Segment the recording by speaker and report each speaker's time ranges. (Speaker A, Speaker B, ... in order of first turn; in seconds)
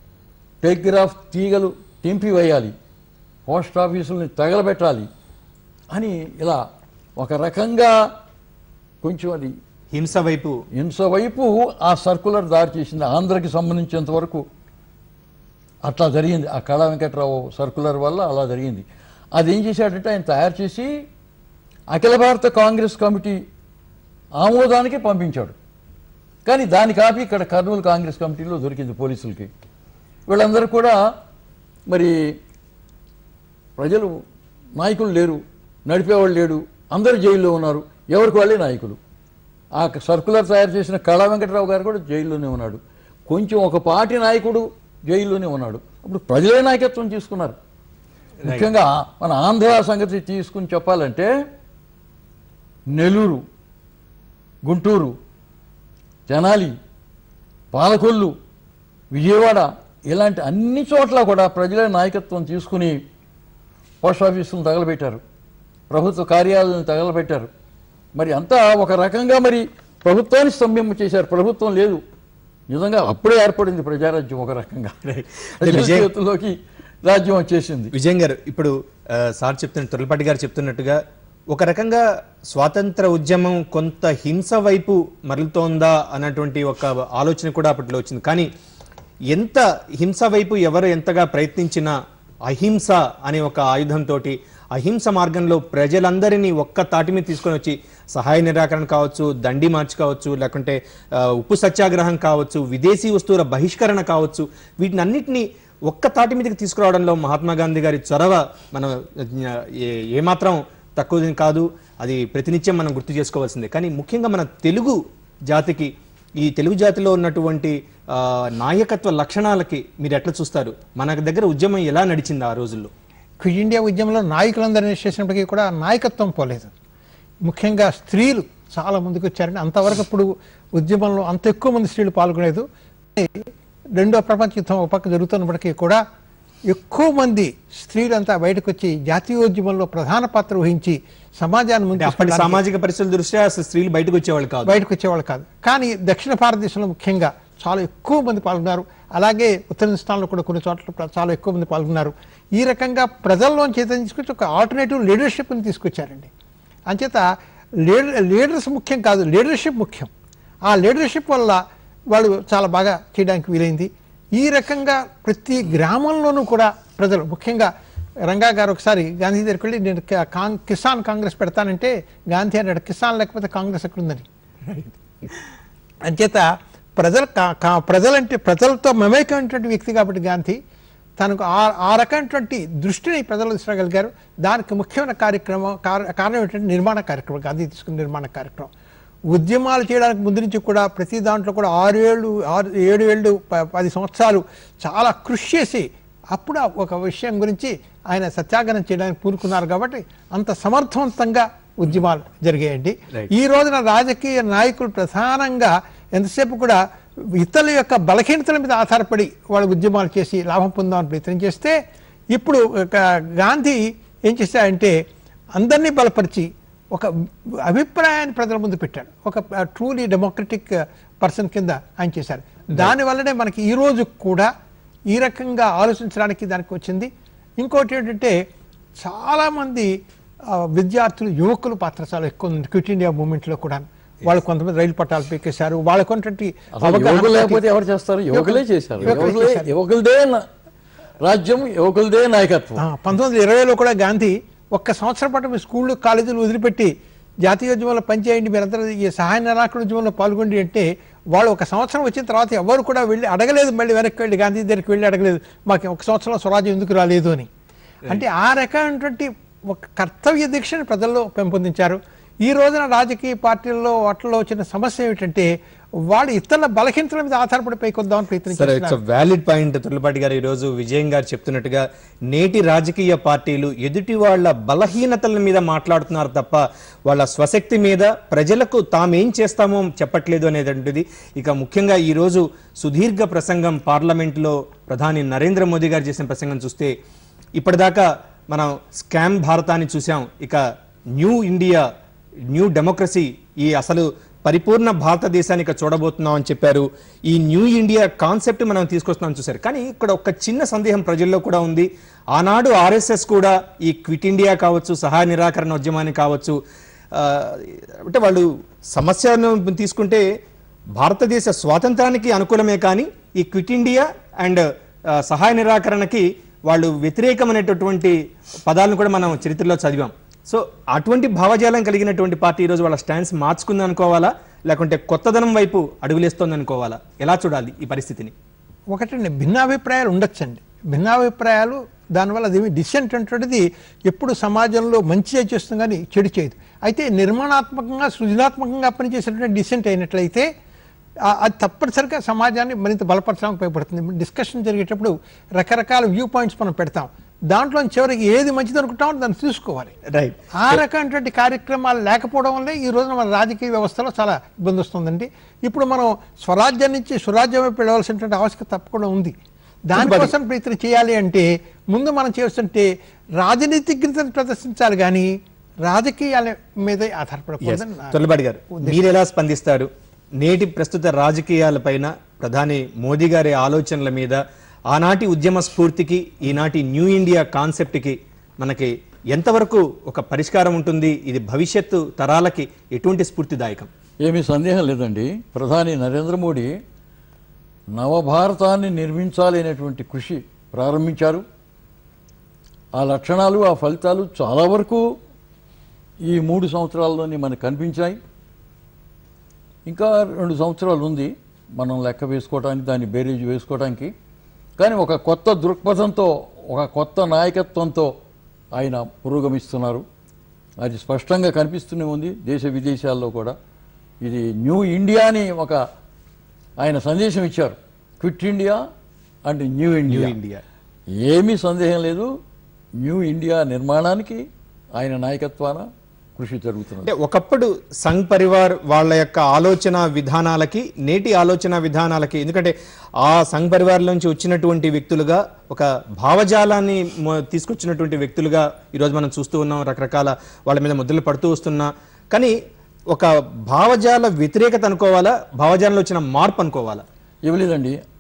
Speaker A: 0.6-2.7, 3.5-5.1, 5.9-6.6, 7.2-8.0, 9.0-9.6, 10.7-14.4, 15.9-21.0, 21.9-23.4, 24.4-25.6, 26.4-29.5, 30.3-31.0, 31.9-32.4, 33.8-34.2, 34.8-39.0, 39.8-47.6, 48.4-51.3, 52.9-53.4, 54.6-55.2, 56.3-56.8, 57.7-58.3, 59.1-63.0, 64.0-65.2, 65.9-67.5, 68.2-72.0, 72.7-75.0, 75.6-77.9, 236.8-240.5, 241.2-242.8, 384.2-386.7, 387.9-391.4, 393.0-395.0, 396.3-398.2, 399.9-404.1, 404.8-408.1, 408.8-410.0, 410.8-413.6, 414.2-415.8, 416.8-418.8, 419.5-420.3, 421.2-422.3, 423.0-424.4, 425.0-427.1, 447.4-448.0
Speaker B: 9.9-10.6, 75.1-76.1, 77.9-81.0, 81.5-88.5, 89.3-91.9, 92.5-122.9, 142.0-144.8, 268.5-286.9, 287.6-290.6, 291.2-291.9, 292.5-306.6, 307.1-310.2, 311.0-328.3, 350.1-350.4, 360.0-360.3, 367.6-383.9, 420.1-420.6, 427.1-442.6, 443.1-447.0
Speaker C: 123.4-126.7, 127.4-136.0, 136.7-142.6, 144.7-156.3, 156.9-157.3, 157.8-160.1, 160.7-167.7, 168.2-174.3, 176.1-180.6, 181.2-188.7, 189.3-206.8, 207.3-211.8, 212.3-215.0, 215.6-217.1, 217.6-224.5, 225.1-228.4, 229.0-229.9, 230.5-237.6, 238.3-239.7, 242.8-257.5, 258.1-265.5, 266.1-269.0, 328.9-340.5, 341.2-349.9, 350.5-359.4, 359.9-365.3, 365.9-368.2, 368.7-369.1